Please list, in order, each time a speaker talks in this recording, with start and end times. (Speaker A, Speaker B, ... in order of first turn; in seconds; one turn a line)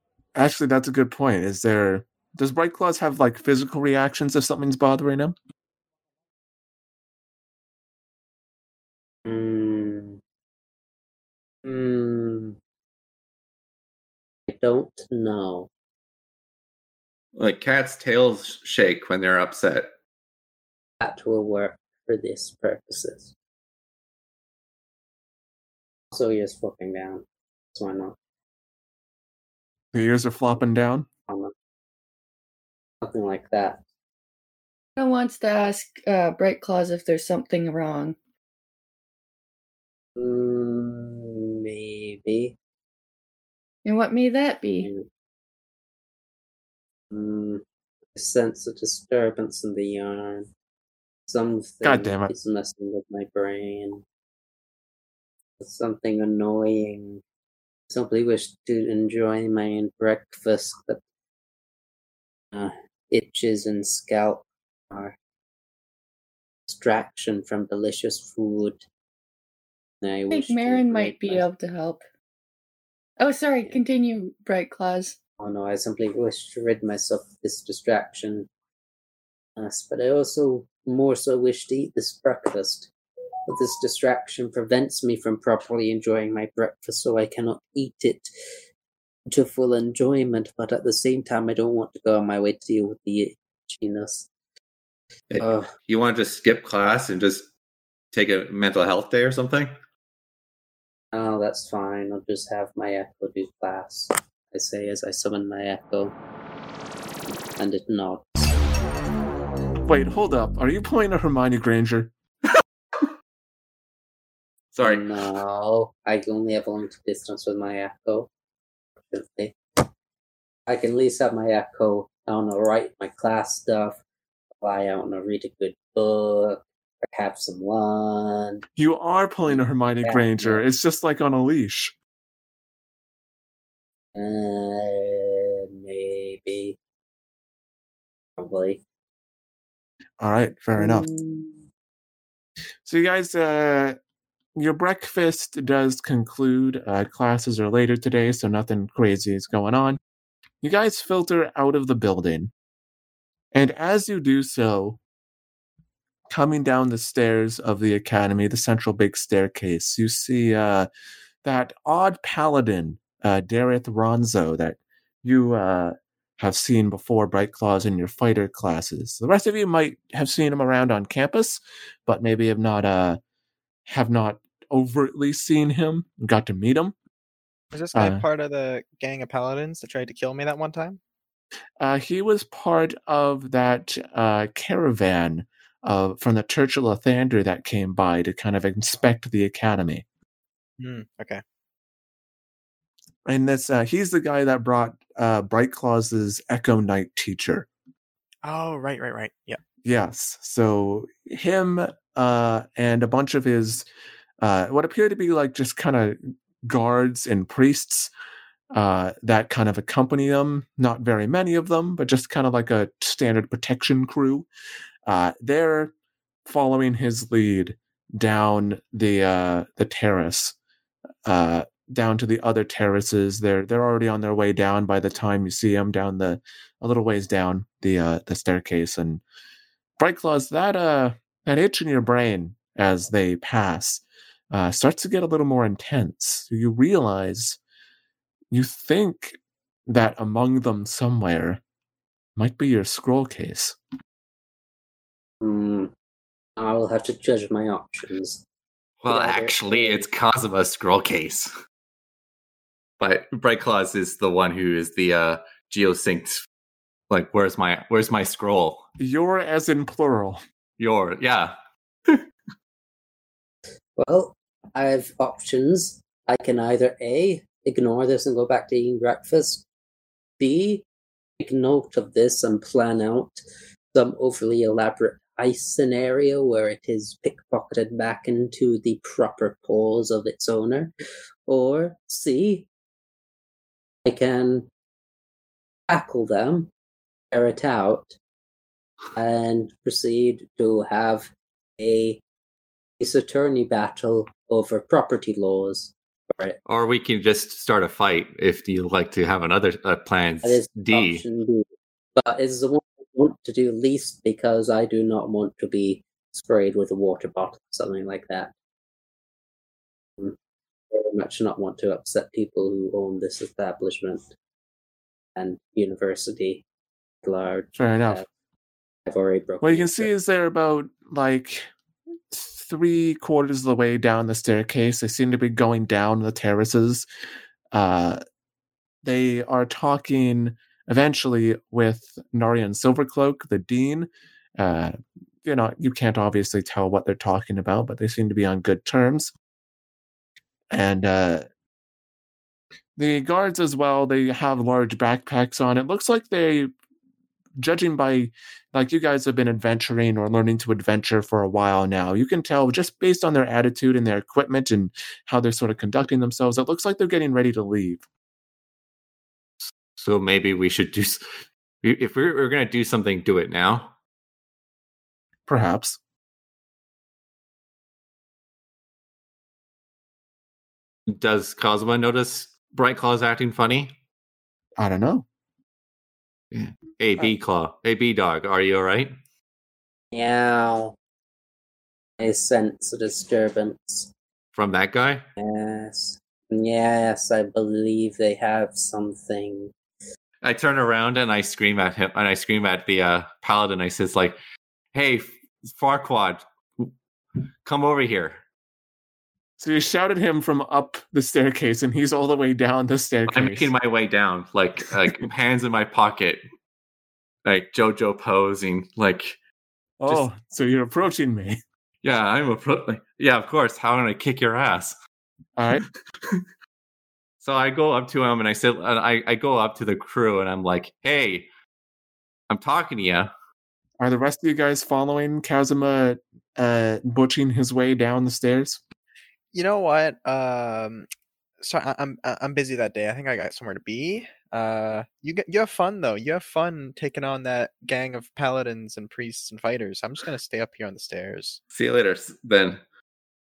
Speaker A: 0.3-5.3
Speaker B: 9.2-10.2
Speaker B: 11.6-12.6
Speaker B: 14.5-15.7
Speaker C: 17.4-19.9
Speaker B: 21.0-23.3
Speaker B: 26.1-28.1
Speaker A: 29.9-31.1
Speaker B: 31.3-31.5
Speaker B: 33.0-33.8
Speaker D: 35.0-38.1
Speaker B: 40.1-42.5
Speaker D: 43.9-44.9
Speaker B: 44.8-45.1
Speaker B: 47.1-47.6
Speaker B: 48.1-50.5
Speaker B: 51.3-54.0
Speaker A: 51.8-52.3
Speaker B: 55.6-57.2
Speaker B: 57.9-61.0
Speaker B: 62.5-65.2
Speaker B: 66.7-68.8
Speaker B: 70.0-71.4
Speaker D: 70.3-72.0
Speaker D: 73.2-75.2
Speaker B: 75.4-78.5
Speaker B: 79.5-82.9
Speaker B: 83.5-88.3
Speaker B: 89.3-94.3
Speaker C: 95.3-97.5
Speaker B: 95.4-95.7
Speaker C: 98.1-99.7
Speaker B: 101.1-106.2
Speaker B: 107.6-108.5
Speaker A: 109.9-112.1
Speaker C: 114.8-115.2
Speaker B: 114.8-118.3
Speaker B: 119.1-119.8
Speaker B: 120.7-124.0
Speaker B: 124.6-128.6
Speaker A: 128.8-131.9
Speaker B: 129.5-130.6
Speaker B: 134.1-136.8
Speaker B: 138.4-138.8
Speaker A: 140.2-141.1
Speaker D: 141.1-141.5
Speaker A: 142.8-144.0
Speaker A: 144.6-150.0
Speaker A: 150.6-152.5
Speaker A: 153.5-155.0
Speaker A: 156.3-160.9
Speaker A: 161.4-173.2
Speaker A: 173.9-176.9
Speaker E: 177.7-181.0
Speaker A: 177.9-178.2
Speaker A: 181.8-190.0
Speaker E: 190.8-191.4
Speaker A: 193.2-197.7
Speaker E: 198.4-199.6
Speaker A: 199.8-203.9
Speaker A: 204.4-208.1
Speaker A: 208.7-214.5
Speaker A: 215.1-215.9
Speaker A: 216.4-220.5
Speaker A: 221.2-229.2
Speaker A: 230.0-237.6
Speaker A: 238.5-241.6
Speaker A: 242.3-243.8
Speaker B: 245.4-245.9
Speaker B: 246.6-248.4
Speaker C: 249.0-251.5
Speaker B: 249.0-250.1
Speaker C: 253.0-256.4
Speaker C: 257.1-258.8
Speaker A: 259.0-260.4
Speaker C: 260.8-261.5
Speaker B: 264.0-269.6
Speaker B: 270.4-270.8
Speaker B: 271.4-280.9
Speaker B: 281.5-282.7
Speaker B: 284.0-284.7
Speaker B: 285.9-286.7
Speaker B: 287.3-288.2
Speaker B: 289.1-292.2
Speaker B: 293.0-296.6
Speaker C: 296.7-301.2
Speaker B: 300.4-301.6
Speaker B: 302.2-308.5
Speaker B: 310.9-314.3
Speaker B: 315.4-316.6
Speaker B: 317.2-318.2
Speaker A: 317.8-318.2
Speaker B: 319.1-320.1
Speaker A: 319.6-321.7
Speaker A: 322.3-327.0
Speaker A: 327.7-328.2
Speaker A: 329.0-339.3
Speaker A: 340.7-341.5
Speaker A: 343.0-346.7
Speaker A: 347.6-358.0
Speaker C: 360.0-363.9
Speaker A: 365.5-366.0
Speaker C: 371.1-374.0
Speaker A: 374.8-375.2
Speaker C: 376.5-379.1
Speaker B: 380.1-380.9
Speaker B: 382.2-384.1
Speaker C: 384.5-385.2
Speaker B: 385.4-389.7
Speaker C: 390.4-394.4
Speaker C: 394.9-396.9
Speaker C: 397.6-398.4
Speaker A: 399.6-403.7
Speaker C: 403.3-406.4
Speaker C: 407.4-409.4
Speaker A: 410.0-411.6
Speaker C: 412.0-415.0
Speaker A: 415.6-415.8
Speaker C: 417.4-421.5
Speaker C: 422.5-423.3
Speaker A: 424.0-428.8
Speaker E: 429.5-431.1
Speaker E: 431.6-441.6
Speaker C: 441.7-442.8